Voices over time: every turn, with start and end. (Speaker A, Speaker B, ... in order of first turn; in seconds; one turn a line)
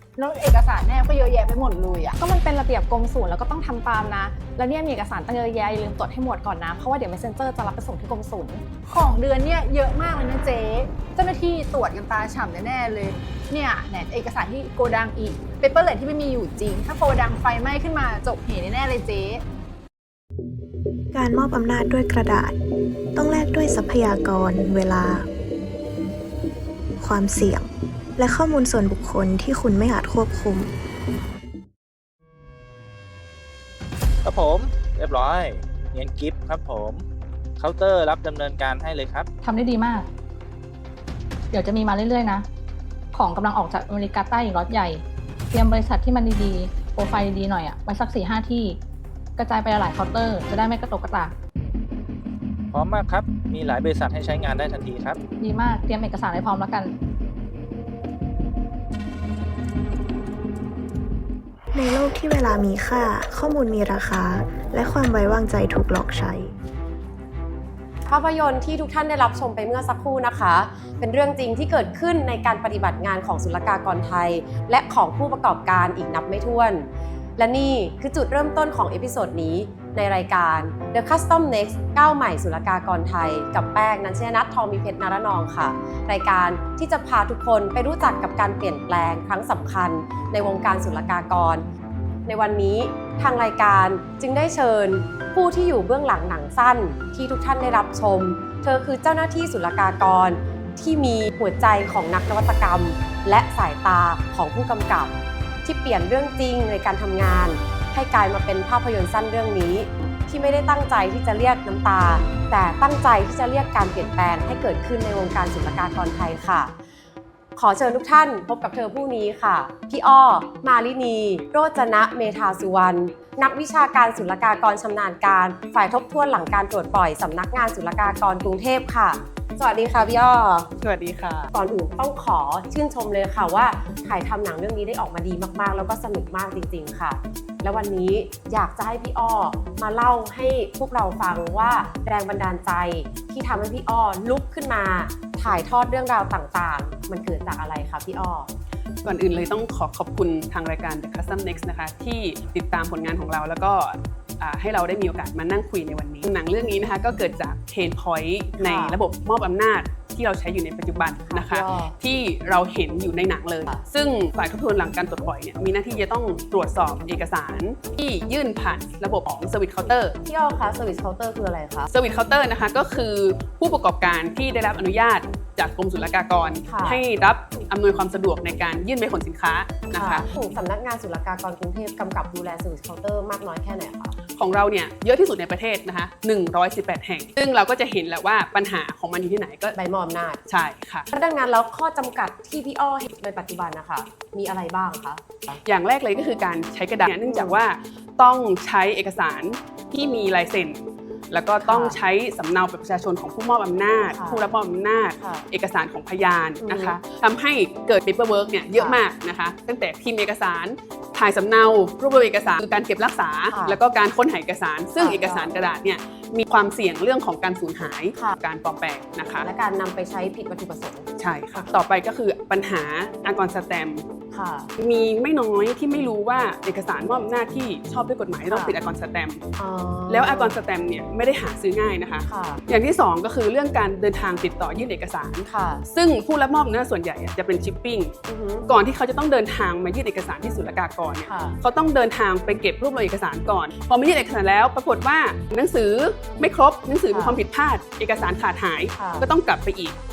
Speaker A: 0.2-2.1
Speaker B: 2.2-8.6
Speaker A: 8.9-19.4
Speaker C: 21.1-22.5
Speaker C: 23.1-25.3
Speaker C: 27.0-30.7
Speaker D: 34.2-37.0
Speaker D: 37.6-39.3
Speaker E: 39.4-40.1
Speaker E: 41.5-42.5
Speaker E: 43.1-48.8
Speaker E: 49.4-51.3
Speaker D: 52.7-55.2
Speaker E: 55.4-56.9
Speaker C: 61.7-66.5
Speaker F: 68.1-91.6
Speaker F: 92.3-116.7
Speaker F: 117.5-130.7
Speaker G: 130.8-131.5
Speaker F: 131.5-148.5
Speaker G: 149.0-170.2
Speaker F: 158.6-159.0
Speaker F: 161.3-161.9
Speaker F: 170.2-171.9
Speaker G: 171.9-180.2
Speaker F: 176.7-177.0
Speaker F: 179.9-184.1
Speaker G: 184.3-189.8
Speaker F: 189.8-190.4
Speaker G: 190.5-191.1
Speaker F: 191.1-195.6
Speaker G: 195.6-219.5
Speaker F: 197.3-197.6
Speaker F: 201.6-202.0
Speaker F: 204.1-204.5
Speaker F: 205.2-205.4
Speaker F: 206.6-207.0
Speaker F: 208.7-209.0
Speaker F: 213.5-213.8
Speaker F: 215.0-215.5
Speaker F: 219.4-221.7
Speaker G: 221.2-224.1
Speaker F: 224.3-224.7
Speaker G: 224.8-229.4
Speaker F: 228.5-228.8
Speaker F: 229.6-230.6
Speaker G: 230.1-238.1
Speaker F: 232.2-232.6
Speaker F: 235.5-235.8
Speaker F: 238.3-238.7
Speaker G: 238.7-249.9
Speaker F: 241.3-241.6
Speaker F: 247.1-247.4
Speaker F: 248.9-249.2